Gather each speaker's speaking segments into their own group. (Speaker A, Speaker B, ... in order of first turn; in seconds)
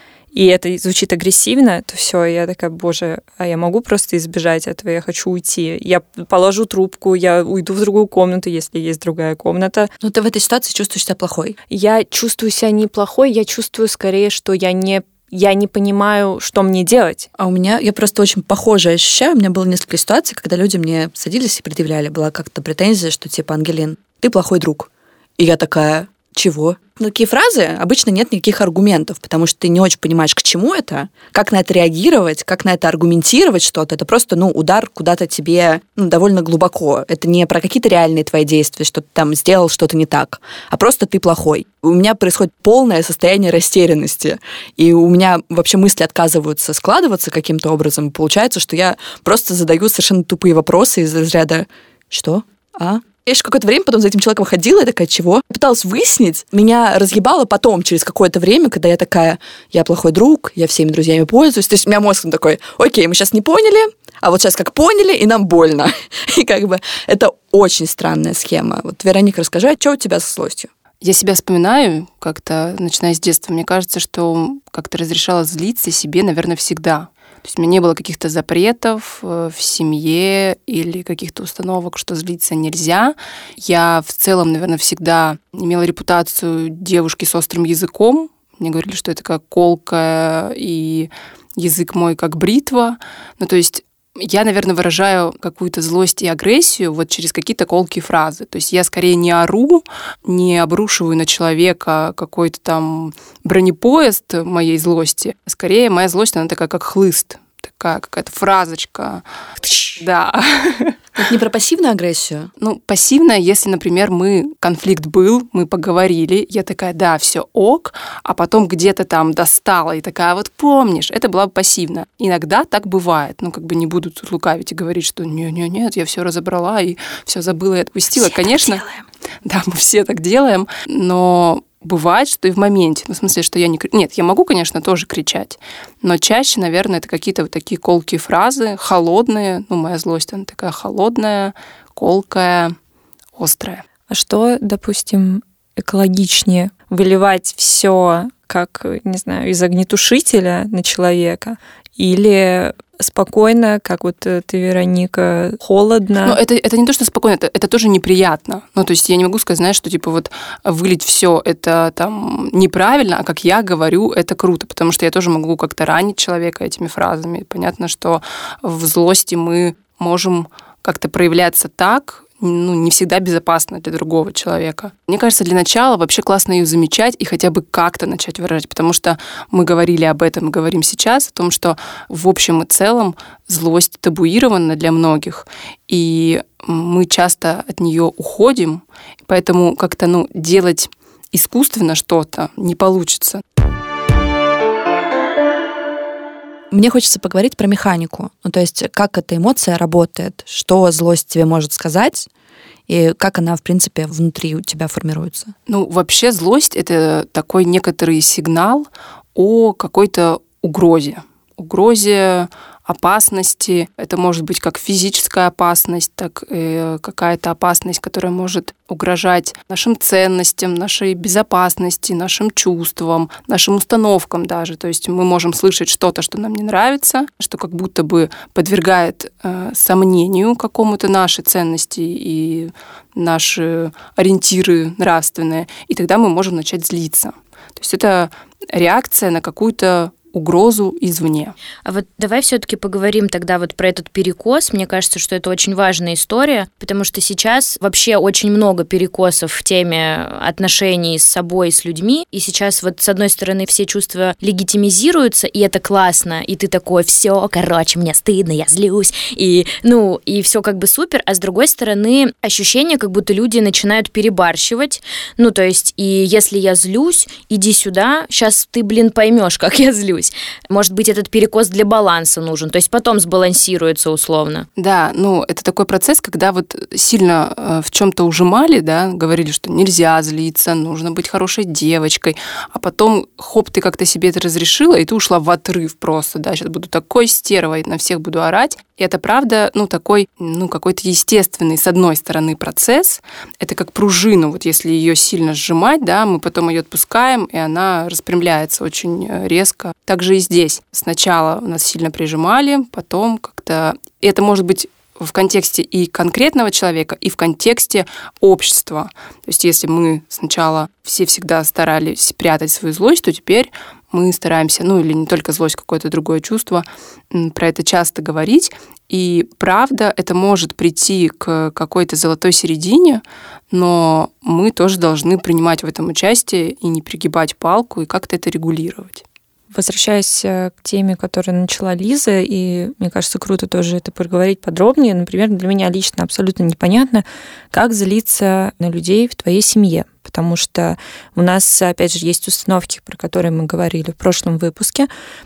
Speaker A: 0.3-9.9, 11.7-17.3, 144.1-156.4, 329.7-345.1
Speaker B: 10.0-11.6, 17.4-70.7, 111.2-112.5, 196.7-202.3, 202.9-205.5
Speaker C: 71.0-109.2, 109.8-111.0, 112.6-128.9, 129.4-142.8, 143.3-143.8, 156.2-193.4, 205.7-241.6, 274.8-329.2
Speaker D: 241.8-274.7